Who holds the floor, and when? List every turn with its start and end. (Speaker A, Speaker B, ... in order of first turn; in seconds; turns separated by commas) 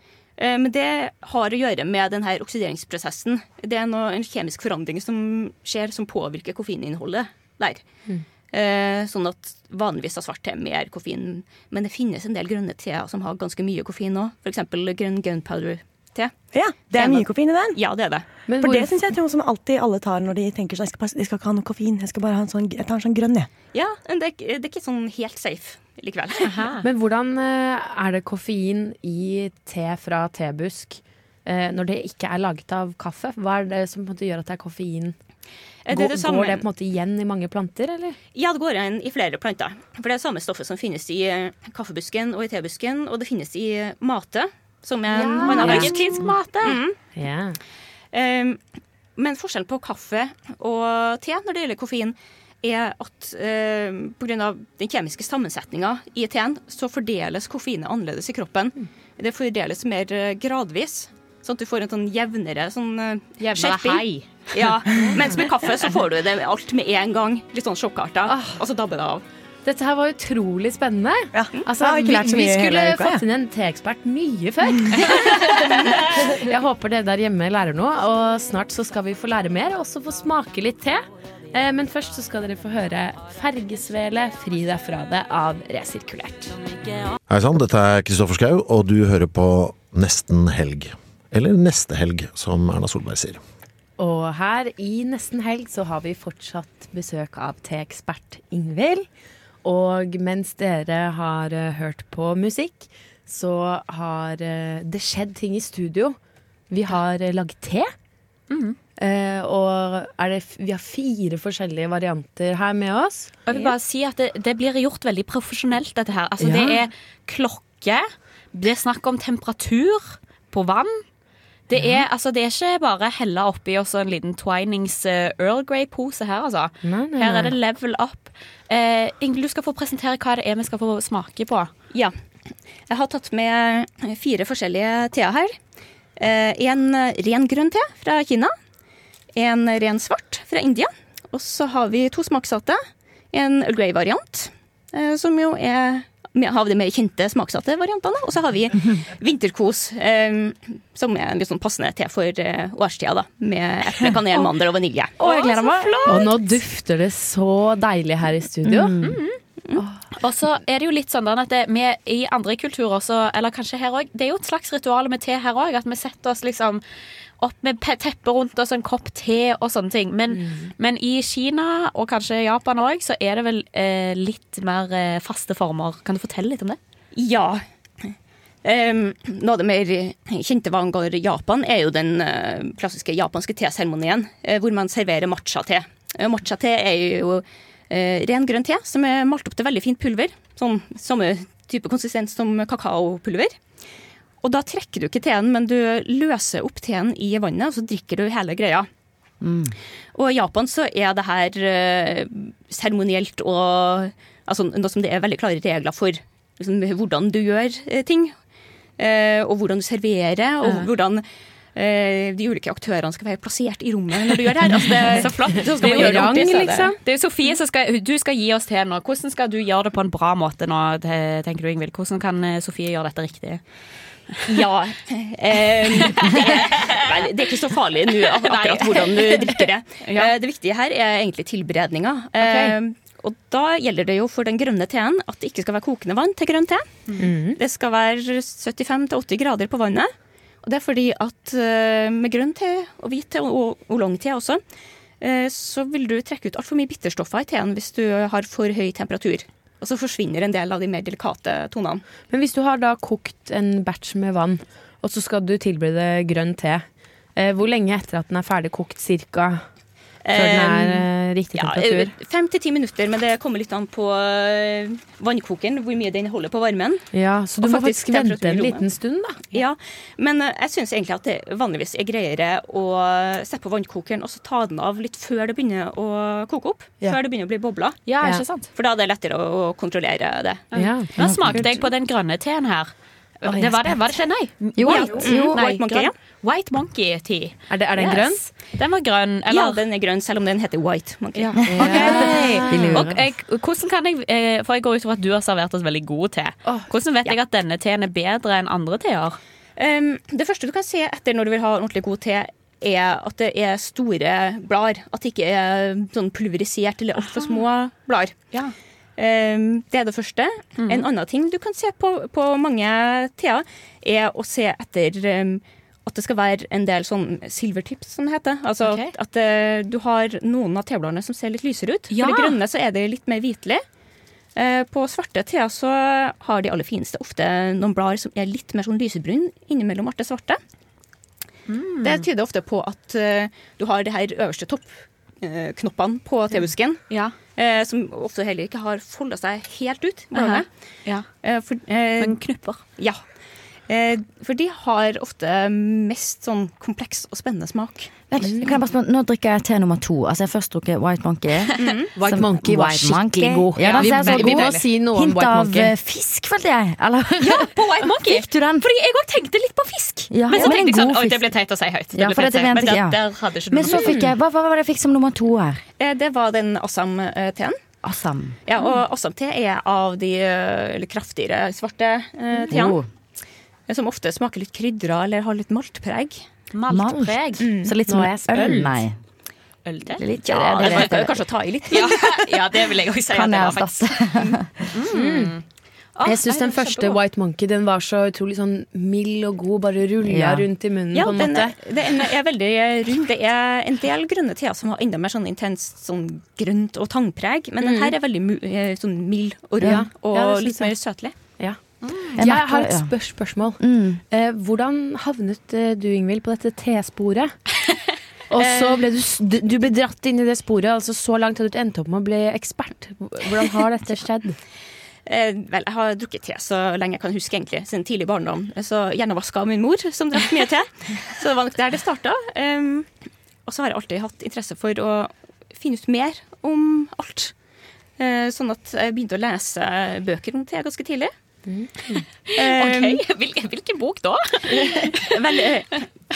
Speaker A: 0.4-7.8, Speaker A: 8.5-16.4, Speaker B: 16.5-17.8, Speaker A: 16.9-18.2, Speaker C: 18.5-19.0, Speaker B: 18.6-23.5, Speaker A: 23.7-26.7, Speaker D: 26.4-26.8, Speaker C: 26.8-35.1, Speaker A: 35.9-36.6, Speaker C: 35.9-38.2, Speaker A: 38.4-46.0, Speaker D: 45.1-46.8, Speaker C: 45.1-45.9, Speaker A: 46.6-47.0, Speaker C: 47.1-47.6, Speaker A: 48.1-48.6, Speaker A: 49.1-69.2, Speaker D: 63.4-64.4, Speaker C: 68.3-68.6, Speaker C: 69.6-86.5, Speaker B: 71.3-73.2, Speaker E: 87.3-93.4, Speaker C: 94.0-99.0, Speaker C: 99.6-106.2, Speaker C: 106.7-107.9, Speaker D: 108.5-108.8, Speaker C: 109.0-113.7, Speaker D: 113.5-121.0, Speaker C: 116.4-116.7, Speaker D: 121.7-131.7, Speaker C: 126.8-127.5, Speaker A: 132.9-135.6, Speaker A: 136.2-138.5, Speaker A: 139.3-142.8, Speaker A: 143.3-155.9, Speaker D: 155.2-156.5, Speaker C: 156.0-158.9, Speaker F: 158.7-159.1, Speaker D: 159.0-159.4, Speaker D: 160.2-166.8, Speaker D: 167.4-176.8, Speaker A: 177.1-193.6, Speaker A: 194.4-198.9, Speaker F: 199.4-199.8, Speaker A: 200.1-208.3, Speaker A: 209.0-216.9, Speaker D: 215.8-216.2, Speaker C: 215.8-217.0, Speaker D: 217.0-223.6, Speaker A: 224.5-236.8, Speaker D: 226.1-226.8, Speaker D: 228.4-230.3, Speaker D: 232.4-232.8, Speaker C: 237.2-237.6, Speaker A: 237.6-240.1, Speaker A: 240.6-244.6, Speaker A: 245.2-252.0, Speaker C: 252.3-256.8, Speaker C: 257.4-259.6, Speaker A: 260.2-267.1, Speaker C: 260.3-262.1, Speaker C: 267.1-269.4, Speaker A: 267.6-268.8, Speaker A: 269.5-278.1, Speaker D: 278.1-278.7, Speaker A: 278.7-280.7, Speaker D: 280.7-289.8, Speaker C: 280.7-281.6, Speaker F: 284.8-285.6, Speaker A: 284.9-286.1, Speaker C: 287.7-288.4, Speaker A: 289.5-292.4, Speaker D: 291.4-299.4, Speaker F: 291.6-293.1, Speaker C: 291.7-293.1, Speaker A: 299.8-308.5, Speaker A: 309.2-323.8, Speaker D: 310.8-311.1, Speaker D: 318.8-319.1, Speaker D: 322.1-322.6, Speaker A: 324.5-330.6, Speaker D: 331.7-332.2, Speaker A: 332.0-340.7, Speaker D: 337.1-337.3, Speaker D: 340.3-341.2, Speaker A: 341.4-342.4, Speaker D: 342.2-342.8, Speaker A: 342.9-343.2, Speaker A: 343.9-348.1, Speaker F: 348.3-358.9, Speaker A: 351.8-352.1, Speaker C: 352.2-355.9, Speaker D: 353.8-354.9, Speaker D: 357.4-364.2, Speaker F: 360.3-361.5, Speaker F: 362.1-365.8, Speaker C: 363.9-364.3, Speaker A: 366.0-367.8, Speaker F: 368.0-368.6, Speaker A: 368.7-373.0, Speaker F: 372.7-373.1, Speaker A: 373.9-376.4, Speaker D: 376.7-377.8, Speaker F: 376.9-379.1, Speaker A: 377.6-377.9, Speaker C: 378.1-379.0, Speaker D: 379.9-381.2, Speaker F: 380.2-381.3, Speaker A: 380.4-382.8, Speaker D: 381.9-384.1, Speaker F: 383.3-384.9, Speaker D: 384.9-385.6, Speaker C: 385.1-385.6, Speaker D: 386.2-387.2, Speaker C: 386.2-391.8, Speaker F: 390.2-390.7, Speaker A: 391.1-401.3, Speaker C: 399.8-400.9, Speaker D: 402.0-402.4, Speaker F: 402.4-403.1, Speaker C: 402.4-407.5, Speaker F: 403.8-404.2, Speaker C: 408.5-414.6, Speaker A: 408.6-409.0, Speaker A: 415.2-423.1, Speaker A: 423.7-427.5, Speaker A: 428.2-431.3, Speaker C: 431.7-432.2, Speaker D: 432.5-435.4, Speaker A: 432.6-433.2, Speaker A: 434.7-436.1